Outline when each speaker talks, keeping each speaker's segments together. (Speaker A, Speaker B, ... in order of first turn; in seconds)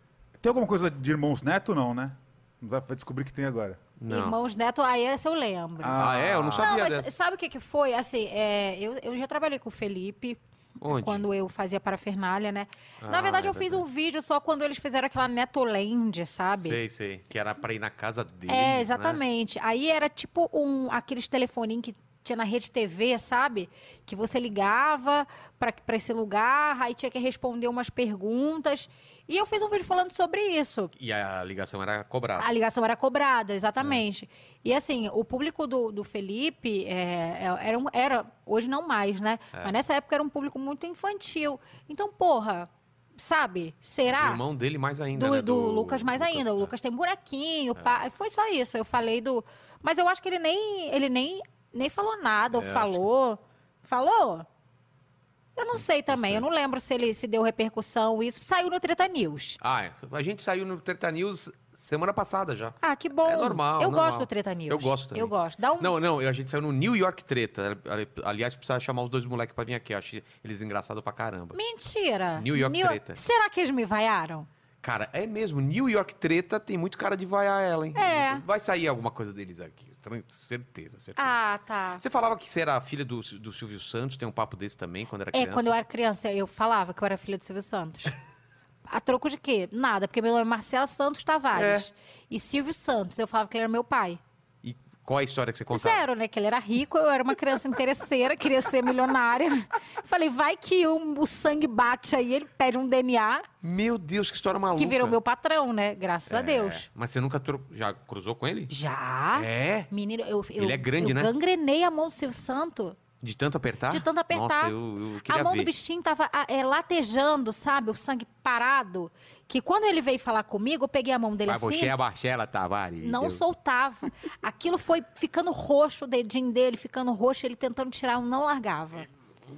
Speaker A: 0.4-3.8, 5.8-6.7
Speaker B: 4.0-4.4, 6.0-7.1, 10.8-11.3, 13.0-13.8, 16.5-19.2, 30.9-32.5, 44.1-46.7, 47.8-48.0, 52.5-53.0, 56.1-56.5, 59.6-71.6, 72.3-73.2, 74.8-81.3, 82.0-85.8, 91.5-91.9, 94.6-96.0, 103.6-105.2, 106.3-108.7, 109.3-109.9, 110.6-111.3, 113.2-115.7, 121.5-123.4
Speaker C: 4.1-16.8, 18.5-30.9, 32.4-44.4, 45.1-54.5, 55.5-59.6, 62.8-65.9, 71.5-74.5, 77.9-78.4, 81.2-82.0, 85.3-88.1, 88.9-94.2, 95.7-103.5, 104.8-106.8, 108.7-113.0, 113.9-114.7, 115.2-121.9, 123.0-129.1